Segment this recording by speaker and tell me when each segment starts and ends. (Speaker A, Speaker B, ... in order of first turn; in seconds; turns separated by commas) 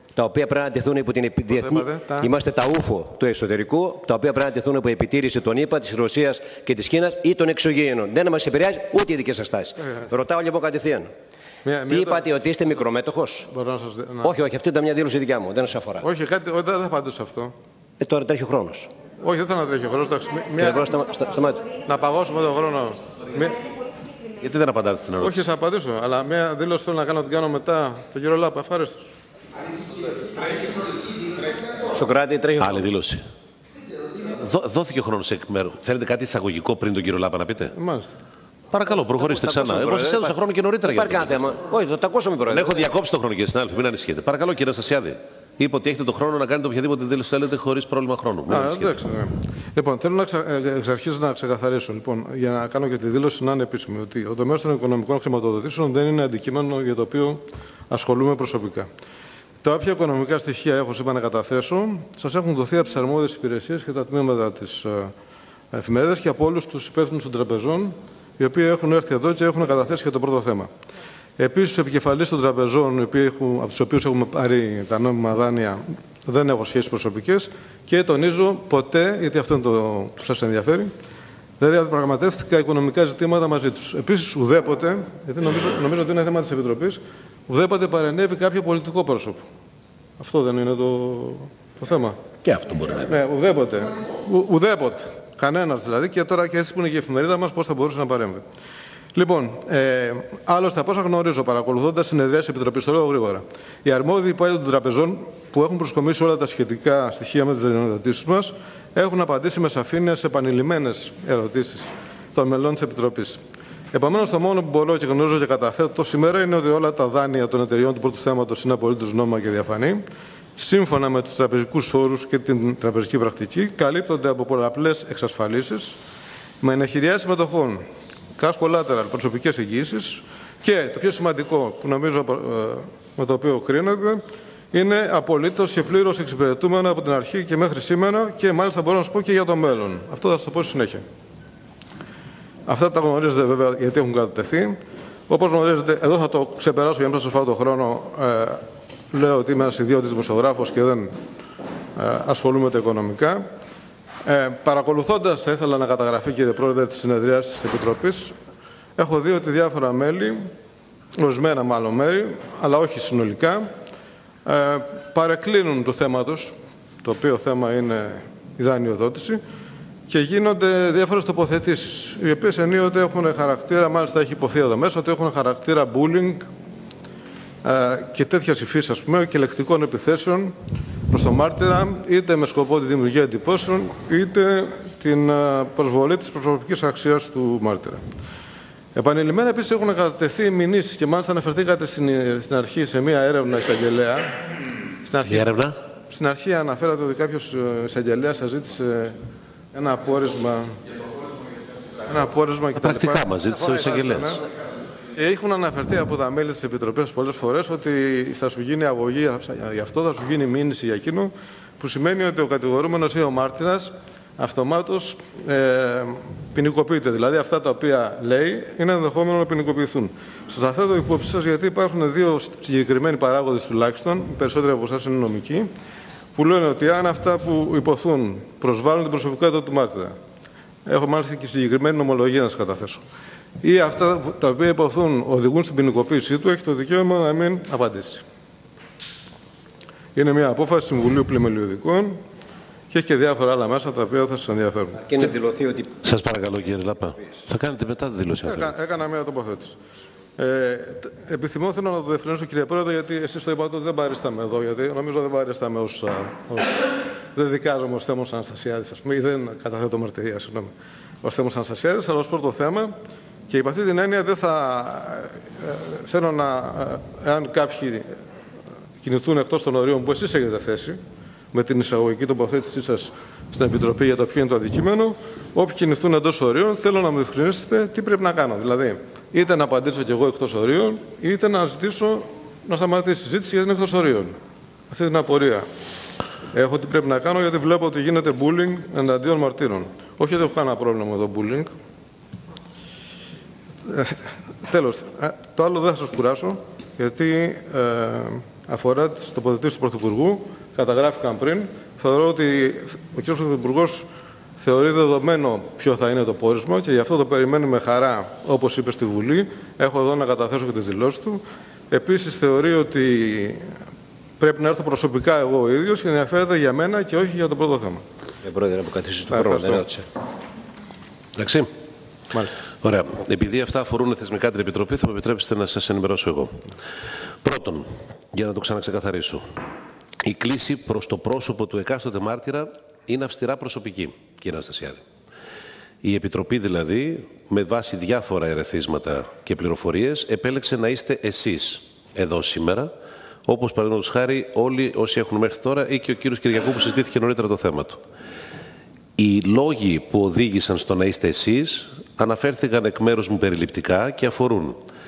Speaker A: 0.1-11.1, Speaker B: 1.5-2.3, Speaker B: 11.6-12.3, Speaker A: 11.9-13.5, Speaker B: 13.5-14.3, Speaker A: 14.2-16.0, Speaker B: 16.0-17.5, Speaker A: 18.0-18.9, Speaker B: 19.2-20.9, Speaker A: 20.6-21.7, Speaker B: 21.8-23.7, Speaker C: 24.3-25.5, Speaker B: 25.2-29.1, Speaker A: 31.8-32.9, Speaker C: 32.6-33.2, Speaker C: 34.4-37.7, Speaker B: 37.7-38.1, Speaker C: 38.7-41.4, Speaker A: 38.9-40.4, Speaker A: 40.9-42.9, Speaker C: 42.5-49.0, Speaker B: 48.5-58.9, Speaker B: 59.6-65.1, Speaker B: 65.7-70.7, Speaker B: 71.4-80.9, Speaker B: 81.6-89.4, Speaker B: 90.2-92.2, Speaker C: 92.4-93.1, Speaker B: 93.0-98.4, Speaker B: 99.1-113.4, Speaker B: 113.9-120.0, Speaker B: 120.5-126.0, Speaker B: 126.6-127.8, Speaker B: 128.4-134.2, Speaker B: 134.7-141.0, Speaker B: 142.7-144.8, Speaker B: 145.3-151.1, Speaker B: 151.9-153.4, Speaker B: 154.2-158.3, Speaker B: 159.0-160.5, Speaker B: 161.2-163.7, Speaker B: 164.4-169.4, Speaker B: 170.1-176.5, Speaker B: 177.6-180.5, Speaker B: 181.1-188.0, Speaker B: 188.9-194.3, Speaker B: 195.0-195.5, Speaker C: 195.2-195.8, Speaker B: 196.1-199.1, Speaker B: 199.7-200.8, Speaker B: 202.1-204.4, Speaker C: 202.8-204.4, Speaker B: 205.1-225.7, Speaker B: 226.3-230.1, Speaker B: 230.8-233.0, Speaker B: 233.6-238.2, Speaker B: 240.1-242.2, Speaker B: 242.9-245.1, Speaker A: 245.1-245.9, Speaker C: 246.0-248.7, Speaker B: 248.4-249.8, Speaker B: 250.4-262.9, Speaker B: 263.5-268.0, Speaker B: 269.0-271.0, Speaker B: 271.5-284.3, Speaker B: 284.9-285.6, Speaker B: 286.5-291.7, Speaker B: 293.9-304.0, Speaker B: 304.6-313.7, Speaker B: 314.4-318.0, Speaker A: 318.4-320.1, Speaker B: 319.3-319.8, Speaker C: 321.4-321.7, Speaker B: 322.3-322.6, Speaker C: 322.8-326.6, Speaker C: 327.4-329.4, Speaker C: 330.2-335.0, Speaker C: 336.0-342.9, Speaker C: 343.4-348.0, Speaker C: 349.2-354.8